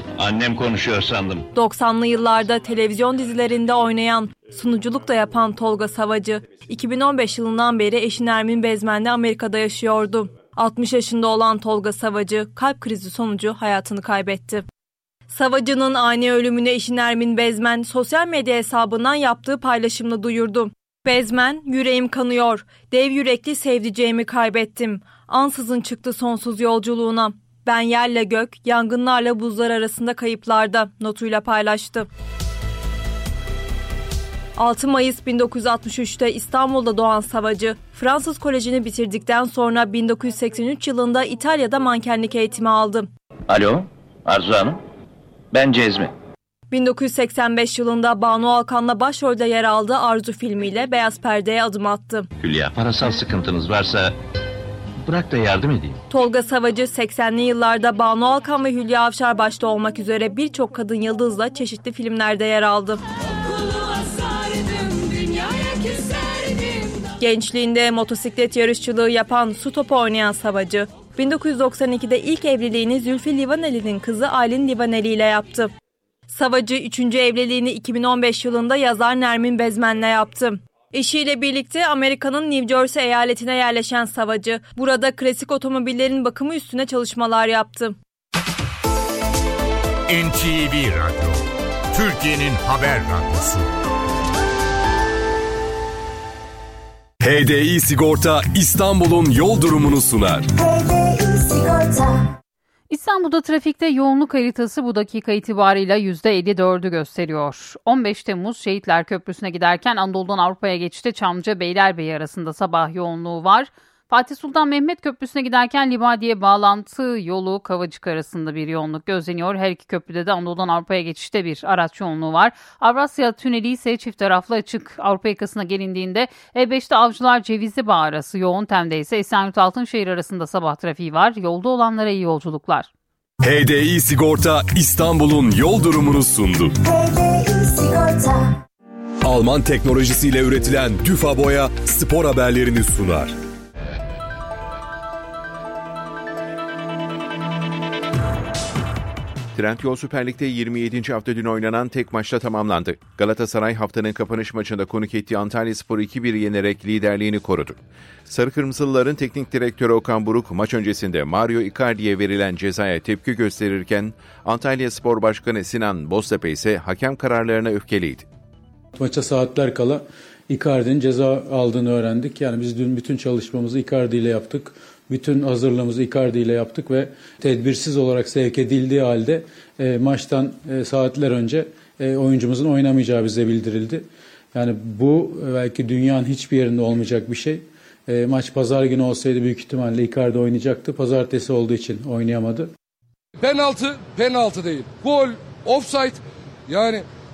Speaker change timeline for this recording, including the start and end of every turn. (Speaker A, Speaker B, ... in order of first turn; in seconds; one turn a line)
Speaker A: 0.2-1.4
Speaker B: 1.5-14.6
Speaker B: 15.3-32.1
Speaker B: 34.6-43.1
Speaker A: 43.5-44.8
Speaker A: 45.5-46.1
Speaker B: 46.7-52.3
Speaker A: 52.4-54.1
Speaker A: 55.0-56.0
Speaker B: 56.1-63.0
Speaker B: 67.2-75.7
Speaker B: 76.3-88.0
Speaker C: 90.1-93.7
Speaker D: 97.2-100.5
Speaker E: 102.9-132.9
Speaker D: 133.4-136.8
Speaker D: 139.2-143.3
Speaker F: 149.5-168.2
Speaker G: 169.0-192.7
Speaker H: 193.4-197.0